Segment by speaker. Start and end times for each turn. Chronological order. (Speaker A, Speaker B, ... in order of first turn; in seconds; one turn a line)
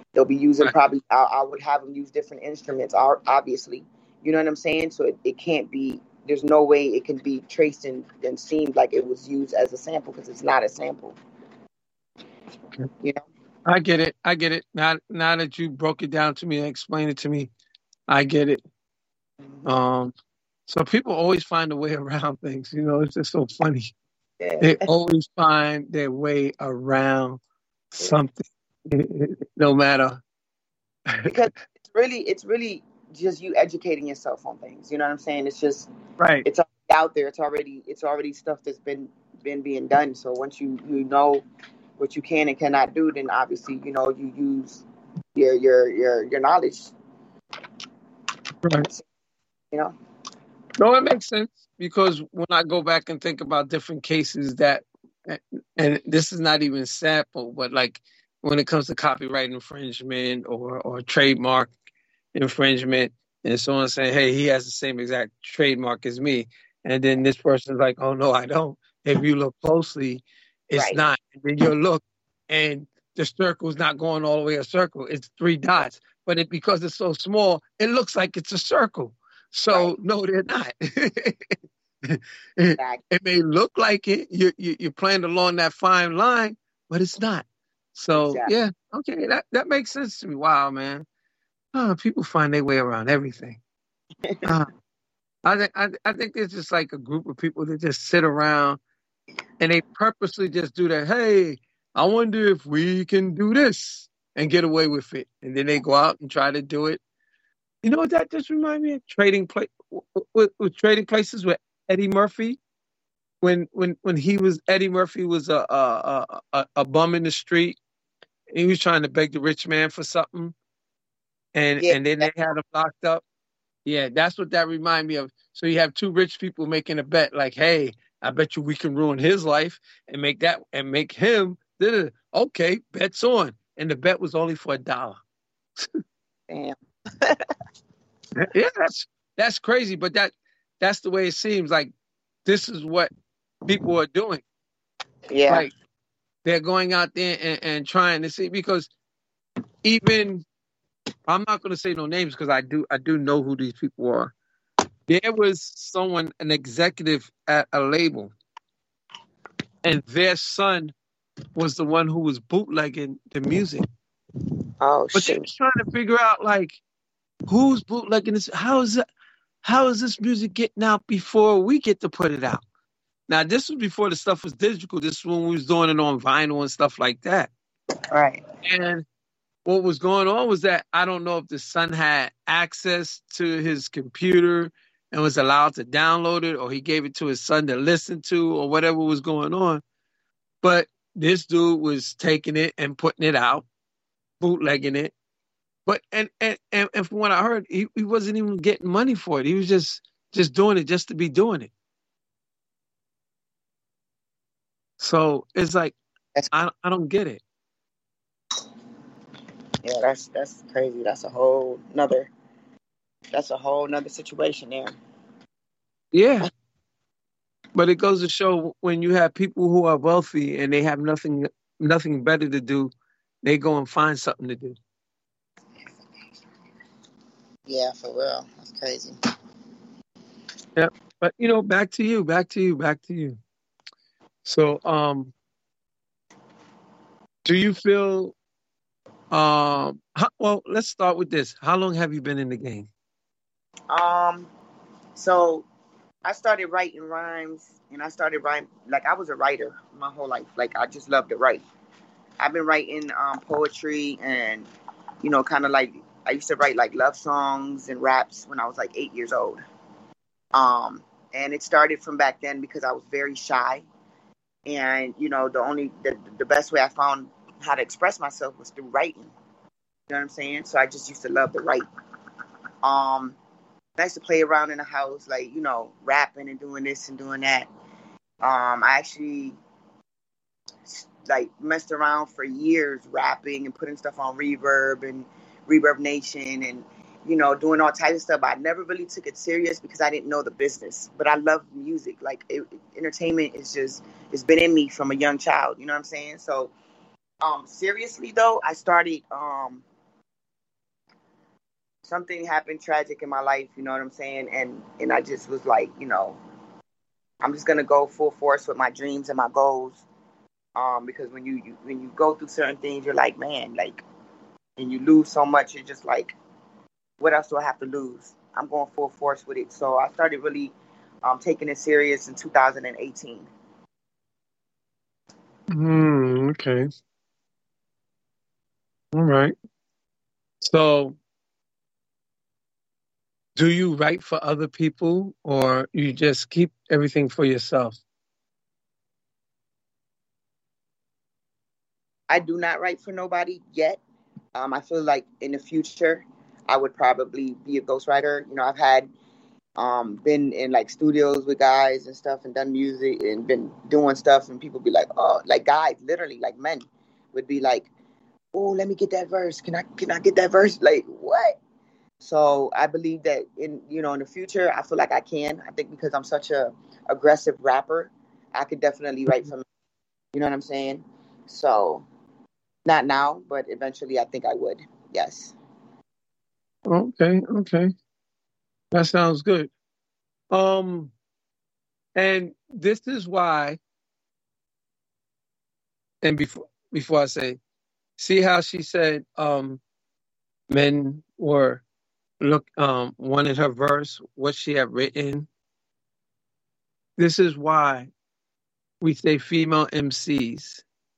Speaker A: 0.1-11.2
Speaker B: 13.6-17.5
Speaker B: 18.1-18.6
Speaker B: 19.6-20.1
Speaker B: 20.7-23.9
Speaker A: 24.4-24.9
Speaker B: 24.6-27.4
Speaker B: 27.9-30.2
Speaker A: 31.3-35.9
Speaker B: 36.2-36.5
Speaker A: 36.5-41.4
Speaker A: 42.0-44.8
Speaker A: 45.4-46.9
Speaker B: 50.8-61.7
Speaker B: 62.3-91.1
Speaker A: 70.8-71.0
Speaker A: 79.7-80.0
Speaker A: 82.8-83.0
Speaker A: 88.2-88.5
Speaker B: 91.7-93.6
Speaker B: 94.5-94.7
Speaker B: 95.5-98.8
Speaker B: 99.6-107.0
Speaker B: 107.8-112.6
Speaker B: 113.4-117.8
Speaker B: 118.5-120.5
Speaker B: 121.5-123.2
Speaker A: 121.8-122.5
Speaker B: 123.8-135.2
Speaker A: 136.5-137.5
Speaker B: 138.4-141.9
Speaker B: 142.4-143.1
Speaker B: 143.6-144.4
Speaker A: 145.3-145.7
Speaker B: 146.4-148.9
Speaker B: 149.8-150.4
Speaker B: 151.3-154.3
Speaker B: 155.1-158.3
Speaker B: 159.8-160.9
Speaker B: 161.6-163.9
Speaker A: 164.8-165.5
Speaker B: 165.1-166.8
Speaker B: 167.5-169.0
Speaker B: 169.6-172.6
Speaker B: 173.3-177.5
Speaker A: 178.1-178.4
Speaker B: 178.6-179.1
Speaker B: 179.6-189.8
Speaker B: 190.6-193.7
Speaker B: 194.4-195.1
Speaker B: 195.9-201.7
Speaker B: 205.0-206.0
Speaker B: 206.5-207.4
Speaker A: 209.8-212.3
Speaker A: 213.3-214.9
Speaker B: 216.1-216.5
Speaker B: 217.7-222.9
Speaker B: 223.4-224.8
Speaker A: 225.8-226.3
Speaker A: 227.7-229.1
Speaker B: 230.8-233.4
Speaker B: 234.4-235.3
Speaker B: 237.4-238.3
Speaker B: 239.3-242.9
Speaker A: 243.9-244.5
Speaker A: 245.1-245.7
Speaker A: 246.2-251.6
Speaker A: 252.4-254.7
Speaker A: 255.2-259.6
Speaker A: 260.5-263.9
Speaker A: 264.7-269.3
Speaker A: 270.1-271.8
Speaker A: 272.8-273.4
Speaker A: 274.0-277.7
Speaker A: 278.4-279.6
Speaker A: 280.9-296.7
Speaker A: 297.4-299.8
Speaker A: 302.0-306.4
Speaker A: 307.4-310.0
Speaker A: 310.8-314.0
Speaker A: 314.8-316.4
Speaker A: 317.2-323.5
Speaker B: 325.7-326.9
Speaker B: 329.1-329.6
Speaker B: 330.6-331.2
Speaker B: 333.6-338.0
Speaker A: 342.3-344.0
Speaker A: 344.6-349.1
Speaker A: 349.8-357.9
Speaker A: 358.5-361.6
Speaker A: 362.2-369.6
Speaker A: 370.3-372.1
Speaker A: 372.9-375.6
Speaker B: 376.9-377.9
Speaker B: 378.9-379.7
Speaker B: 380.5-381.1
Speaker B: 382.1-383.8
Speaker B: 386.2-387.6
Speaker B: 388.2-389.8
Speaker B: 390.7-391.8
Speaker B: 392.4-395.5
Speaker B: 397.2-398.1
Speaker B: 399.0-400.8